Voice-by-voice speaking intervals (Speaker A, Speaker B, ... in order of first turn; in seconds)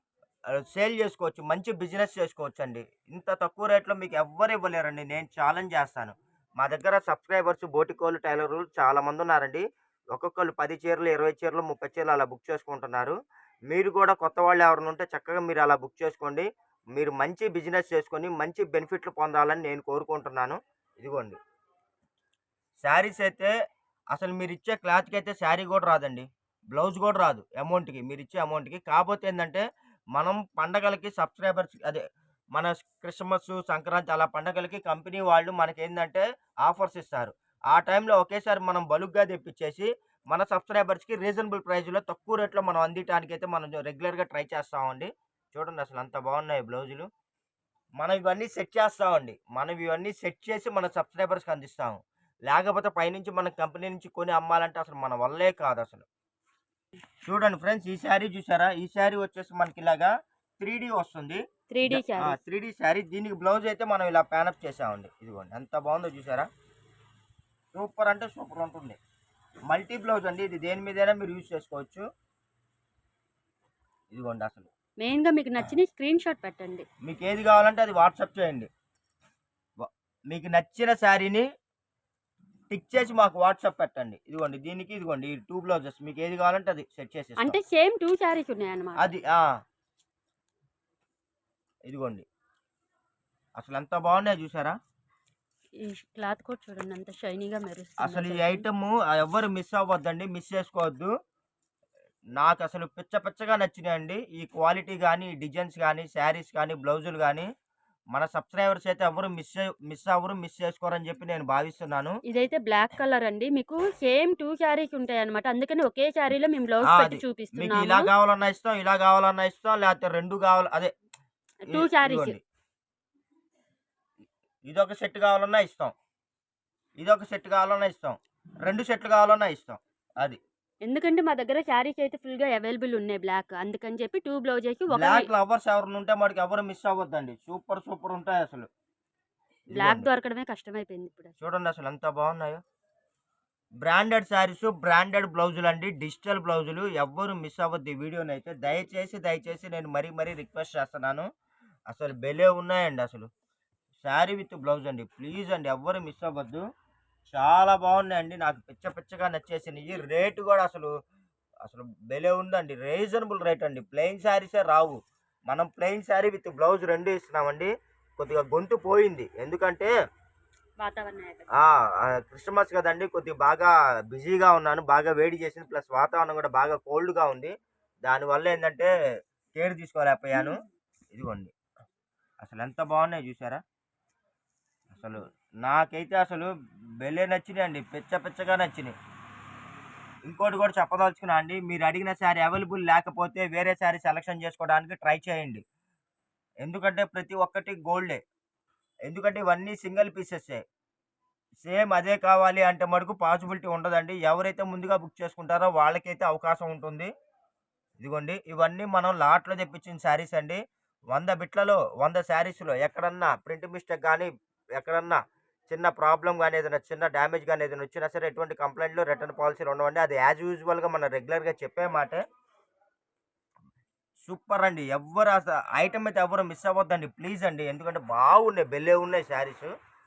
Speaker A: 0.6-13.2, 13.7-21.4, 22.8-23.5, 24.1-29.6, 30.1-32.0, 32.5-47.1, 48.0-56.1, 57.2-66.5, 67.7-69.0, 69.7-72.0, 74.1-74.7, 77.0-78.7, 79.8-81.5, 82.7-87.6, 89.0-89.4, 91.9-92.2, 93.6-94.8, 98.0-101.1, 102.3-107.5, 108.1-112.1, 116.8-120.9, 121.7-122.4, 124.7-125.9, 127.0-130.4, 134.9-138.7, 139.7-140.1, 141.4-142.6, 143.8-151.3, 151.9-153.3, 154.0-156.6, 157.3-160.9, 161.6-169.9, 171.6-177.5, 178.0-178.9, 179.5-180.6, 181.1-181.5, 182.4-183.6, 184.9-188.9, 190.2-195.6, 196.6-198.2, 199.1-200.6, 201.6-207.1, 208.0-210.6, 211.1-222.2, 224.2-229.7
Speaker B: 61.7-62.4, 75.0-76.8, 87.4-89.1, 95.8-98.6, 112.3-118.1, 121.6-122.4, 130.8-135.3, 139.7-141.3, 170.8-171.5